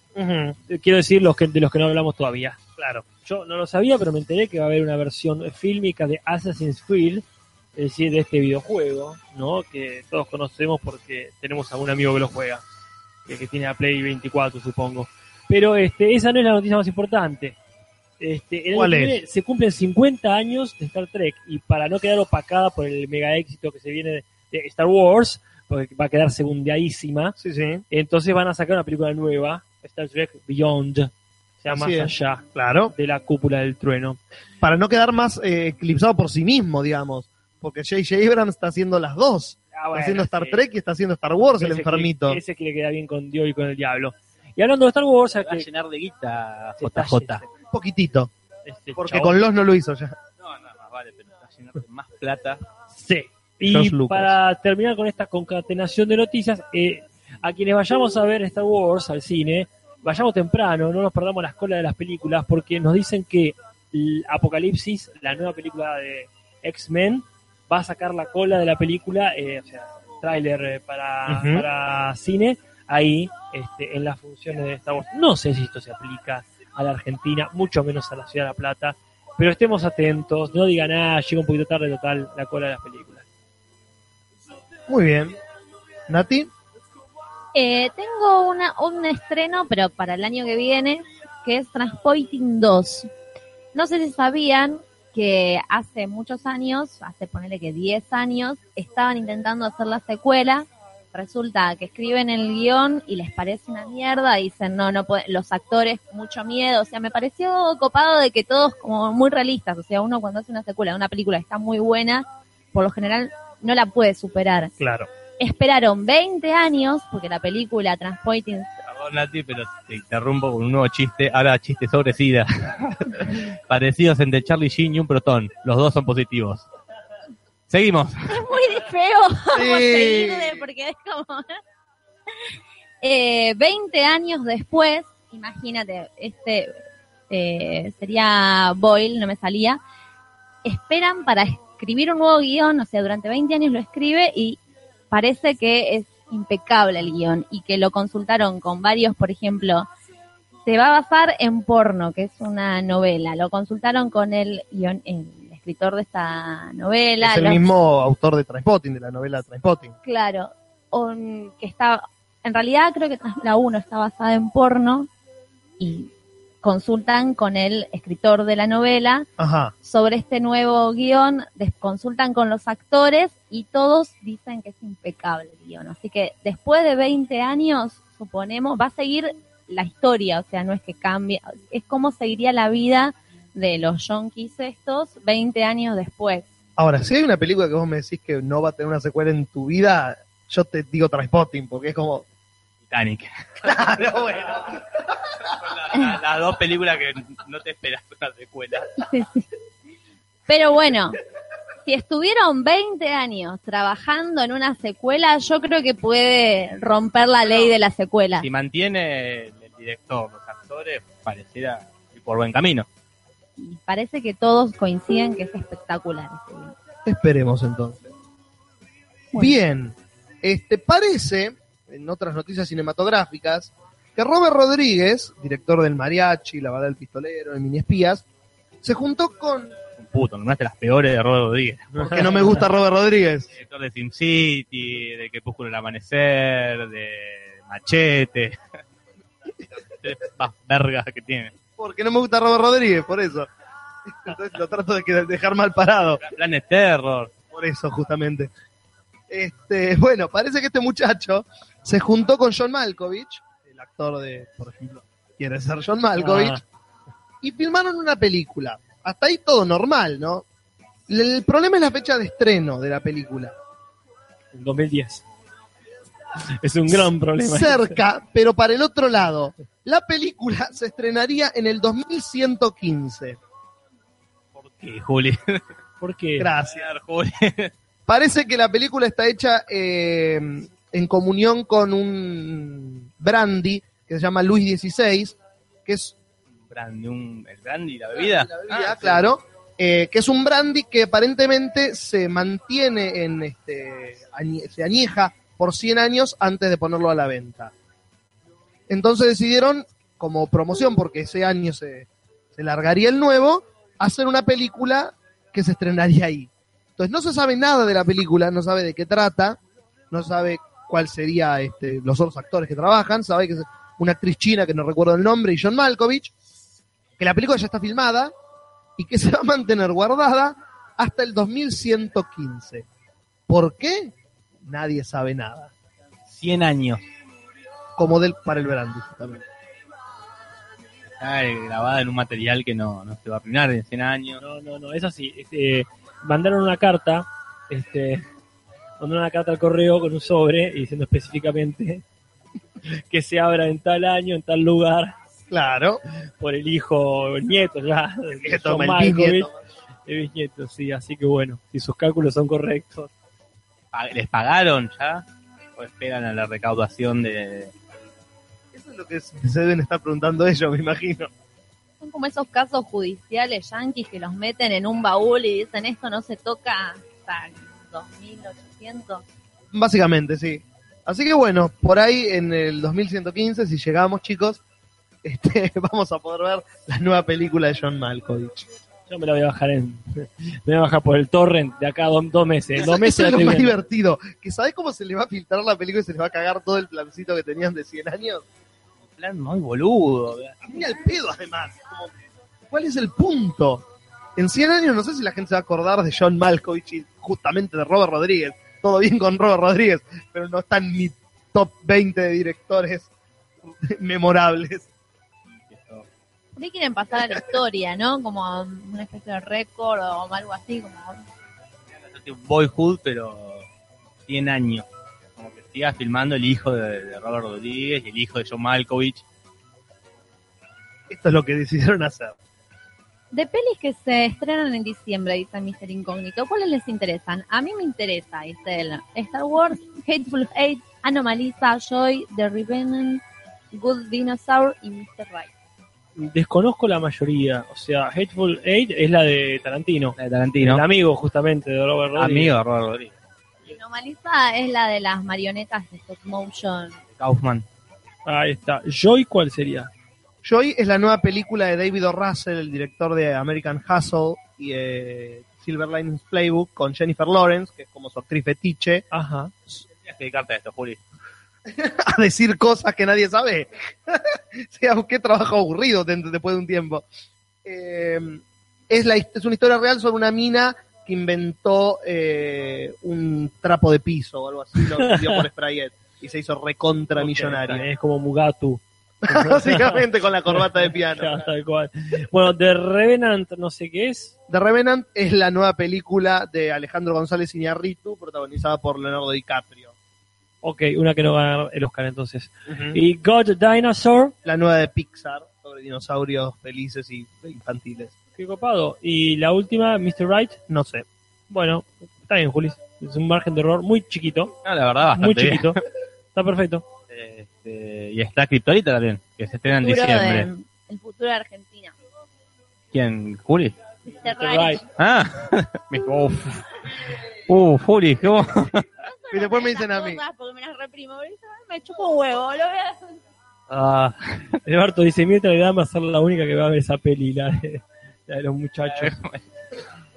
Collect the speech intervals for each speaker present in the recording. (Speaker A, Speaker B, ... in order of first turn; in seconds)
Speaker A: 0.1-0.6, 2.8-3.0, 18.7-19.2, 27.4-27.8, 31.7-32.9, 34.6-42.4, 47.6-48.3, 49.0-50.2, 53.6-54.4, 71.3-71.7, 84.9-85.4, 86.1-86.5, 114.8-115.1, 129.5-130.6, 157.2-159.9, 169.4-169.7, 186.8-192.2, 193.6-195.0, 217.1-218.1, 219.3-228.2, 228.8-229.8, 232.0-233.5, 241.8-243.5, 244.1-246.2, 247.5-248.5, 249.3-256.6, 257.4-260.4, 261.1-263.5, 266.9-273.4, 276.4-276.9, 278.1-286.2, 288.2-297.7, 298.9-309.6, 310.1-316.3, 317.2-318.3, 319.0-322.9, 323.5-325.7, 328.0-329.4, 345.5-346.0, 348.4-349.6, 358.7-361.3, 369.7-374.6, 375.2-378.7, 382.8-388.4, 390.7-392.1, 392.7-393.9, 394.4-403.1, 403.7-404.9, 421.1-422.4, 450.4-459.1, 461.7-467.1, 467.6-477.9, 479.2-481.4, 484.5-489.9, 492.7-493.0, 494.4-498.1, 500.7-501.1, 519.3-520.2
Speaker B: 0.7-2.6, 3.2-7.2, 7.8-12.6, 13.3-17.6, 18.2-27.4, 27.9-34.2, 39.7-40.6, 41.6-45.7, 46.8-47.4, 48.7-49.4, 52.9-83.2, 232.0-232.5, 256.2-256.6, 264.5-265.2, 266.6-268.0, 276.0-276.5, 334.4-338.2, 339.0-342.0, 342.9-345.1, 346.4-349.5, 350.1-353.1, 379.1-383.7, 436.2-442.5, 448.3-449.9, 459.1-459.5, 474.9-475.4, 477.2-484.3, 490.6-494.3, 498.4-500.6, 501.5-504.5, 505.2-505.8, 506.4-506.9, 514.3-514.8, 523.7-529.2
Speaker C: 45.4-47.4, 50.4-52.6, 118.9-126.7, 127.7-128.5, 192.9-193.4, 195.5-199.0, 208.4-212.9, 230.0-232.5, 233.6-238.6, 240.0-241.5, 246.2-247.3, 274.6-275.6, 276.7-277.7, 286.7-289.3, 326.3-327.0, 331.1-334.4, 353.9-355.2, 355.8-357.7, 389.2-390.8, 405.5-406.1, 411.9-413.6, 414.3-414.9, 415.4-419.2, 440.2-440.8, 442.2-443.1, 447.2-447.7, 460.1-461.0, 504.6-505.8, 507.1-510.5, 512.9-513.8, 515.0-516.6, 517.5-518.9, 528.8-529.4
Speaker D: 87.5-93.1, 93.7-114.7, 115.4-118.8, 128.3-131.6, 133.0-136.7, 137.3-139.8, 140.7-144.6, 145.1-149.9, 150.7-157.7, 160.0-165.1, 165.8-166.1, 166.6-169.3, 169.8-186.5, 199.0-199.5, 200.5-201.2, 201.9-208.5, 213.6-216.8, 362.0-369.2, 406.6-411.2, 423.3-435.5, 443.7-447.0, 509.8-511.9, 514.1-514.8, 519.0-523.2